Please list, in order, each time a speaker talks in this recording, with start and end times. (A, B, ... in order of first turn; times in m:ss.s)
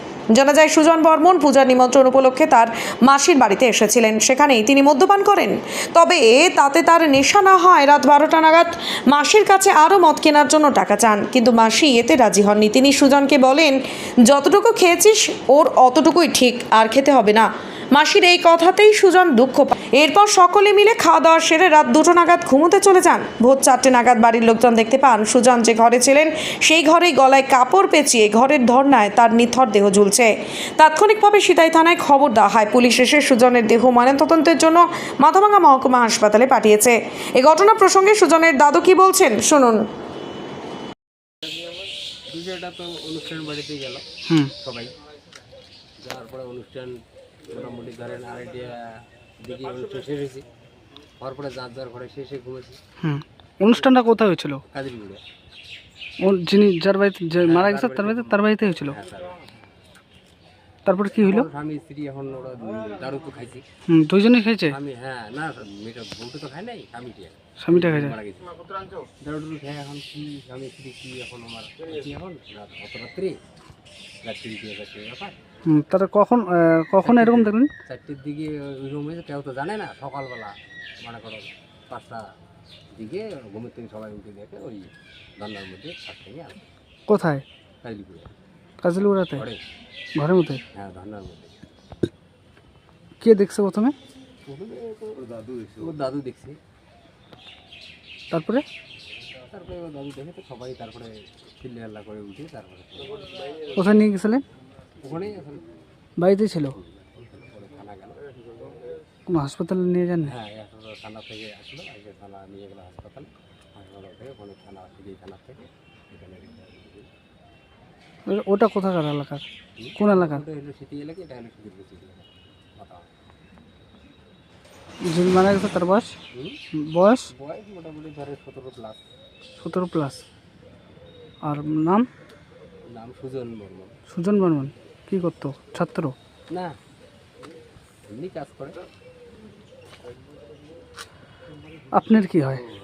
0:00.3-0:13.8 A
0:14.3-0:39.8 A
0:42.3-0:44.0 B
0:44.6-0:44.9 B
0:46.0-0:47.0 B
0:47.5-0:48.9 B
0:49.4-0:50.4 B
0:51.2-0:52.8 B
0:53.0-0:54.6 C
0:54.7-0:55.2 B
0:56.2-0:58.9 C
0:57.4-0:59.4 B
1:00.9-1:01.4 C
1:01.2-1:03.6 B
1:03.9-1:04.7 C
1:04.7-1:08.6 B
1:07.6-1:08.1 C
1:09.2-1:13.4 B
1:14.2-1:15.4 B
1:15.7-1:17.7 C
1:17.0-1:22.2 B
1:22.9-1:26.6 B
1:27.1-1:27.4 C
1:27.8-1:28.3 B
1:28.8-1:29.4 C
1:29.4-1:29.6 B
1:30.2-1:30.6 C
1:30.7-1:31.6 B
1:33.2-1:33.9 C
1:34.4-1:36.6 B
1:38.3-1:38.6 C
1:39.4-1:43.3 B
1:43.8-1:44.4 C
1:45.0-1:45.6 B
1:46.2-1:46.8 C
1:47.2-1:48.2 B
1:49.3-1:50.3 C
1:50.2-1:57.1 B
1:58.3-1:59.4 C
1:59.8-2:03.1 B
2:00.0-2:00.4 C
2:05.1-2:06.1 C
2:06.3-2:06.6 B
2:06.8-2:07.3 C
2:07.3-2:09.0 B
2:09.6-2:10.2 C
2:11.4-2:12.0 C
2:12.9-2:14.0 B
2:14.1-2:16.1 C
2:16.5-2:16.7 B
2:18.1-2:18.8 B
2:22.0-2:22.6 C